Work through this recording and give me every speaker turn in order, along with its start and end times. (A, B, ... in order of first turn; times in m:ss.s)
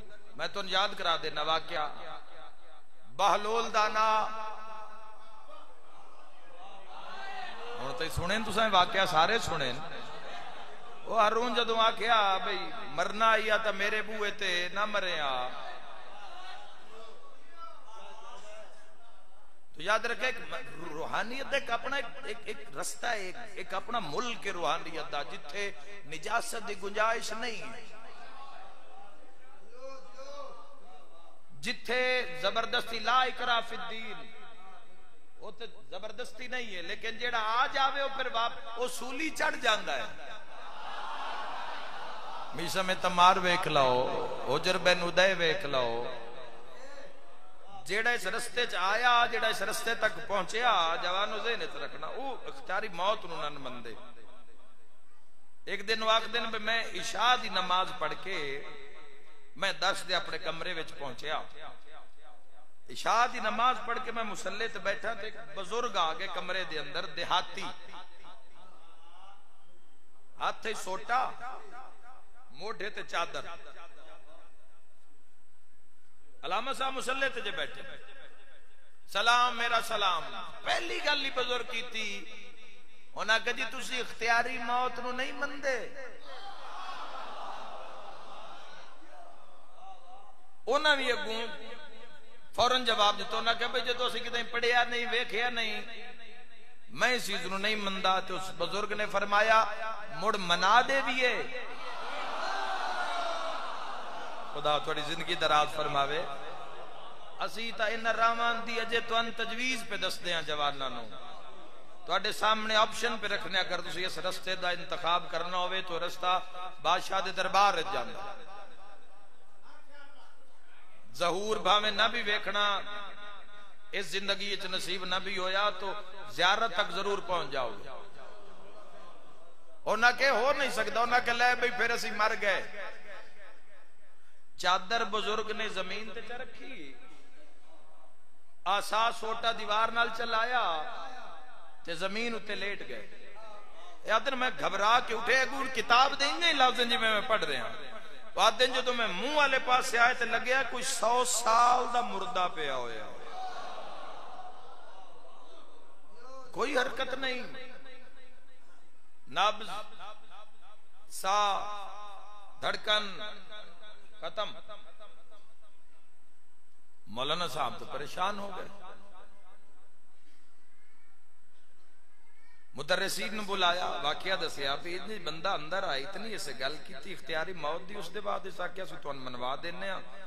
0:00.3-0:02.0 A
0:03.2-0:04.4 A
0:07.8-0:09.8 A
0:11.0-0:15.6 A
0:19.7-0:27.8 A
0:31.6-0:34.3 A
0:35.4-0:40.2 A
0:42.5-0:46.1 A
0:47.8-0:54.0 A
0:55.7-0:58.8 A
0:59.6-1:01.5 A
1:02.9-1:07.7 A
1:10.4-1:11.3 A
1:12.5-1:13.5 A
1:16.4-1:18.0 A
1:19.1-1:22.4 A
1:23.1-1:25.9 A
1:30.7-1:31.6 A
1:32.5-1:35.9 A
1:36.9-1:41.5 A
1:44.5-1:46.3 A
1:47.4-1:51.1 A
1:52.0-1:58.3 A
2:01.1-2:02.8 A
2:03.9-2:07.9 A
2:09.8-2:12.7 A
2:14.6-2:17.0 A
2:18.6-2:20.9 A
2:21.8-2:23.1 A
2:24.0-2:27.8 A
2:28.3-2:33.2 A
2:36.5-2:37.6 A
2:39.3-2:39.8 A
2:41.1-2:42.0 A
2:42.6-2:43.3 A
2:44.2-2:44.6 A
2:47.1-2:48.7 A
2:52.7-3:00.0 A